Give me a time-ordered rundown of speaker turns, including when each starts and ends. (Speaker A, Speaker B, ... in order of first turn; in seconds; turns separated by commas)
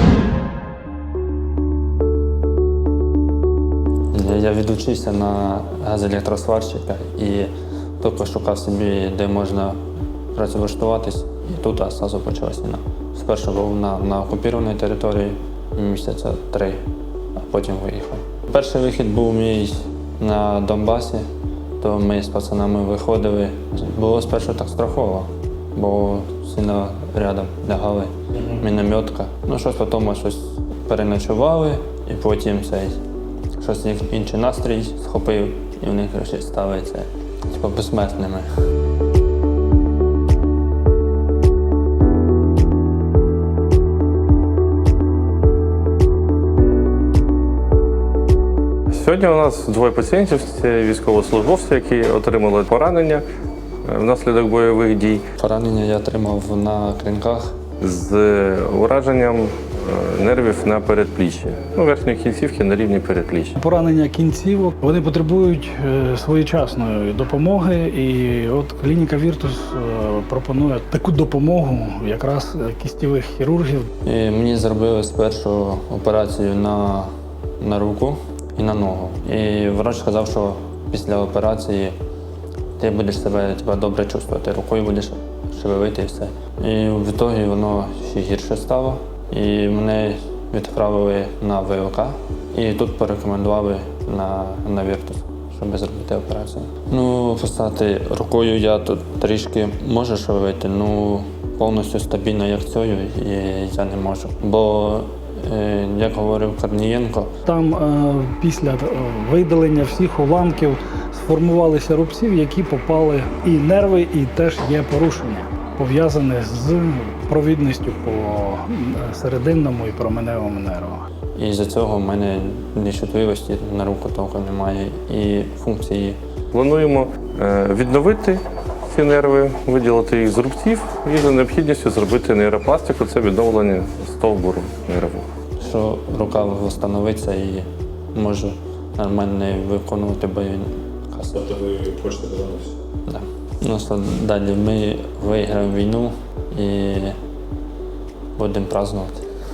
Speaker A: 4.1-9.8, Speaker A: 10.3-16.8, Speaker A: 17.4-21.2, Speaker A: 21.8-33.0, Speaker A: 33.6-38.5, Speaker B: 48.9-53.2, Speaker B: 53.8-55.2, Speaker A: 55.4-57.5, Speaker B: 57.8-63.6, Speaker C: 63.6-73.9, Speaker A: 74.0-81.9, Speaker A: 82.8-107.3, Speaker C: 107.5-121.0, Speaker A: 121.3-126.2, Speaker B: 126.5-135.3, Speaker A: 135.6-141.6, Speaker B: 141.7-142.5, Speaker A: 143.1-147.2, Speaker A: 148.4-149.2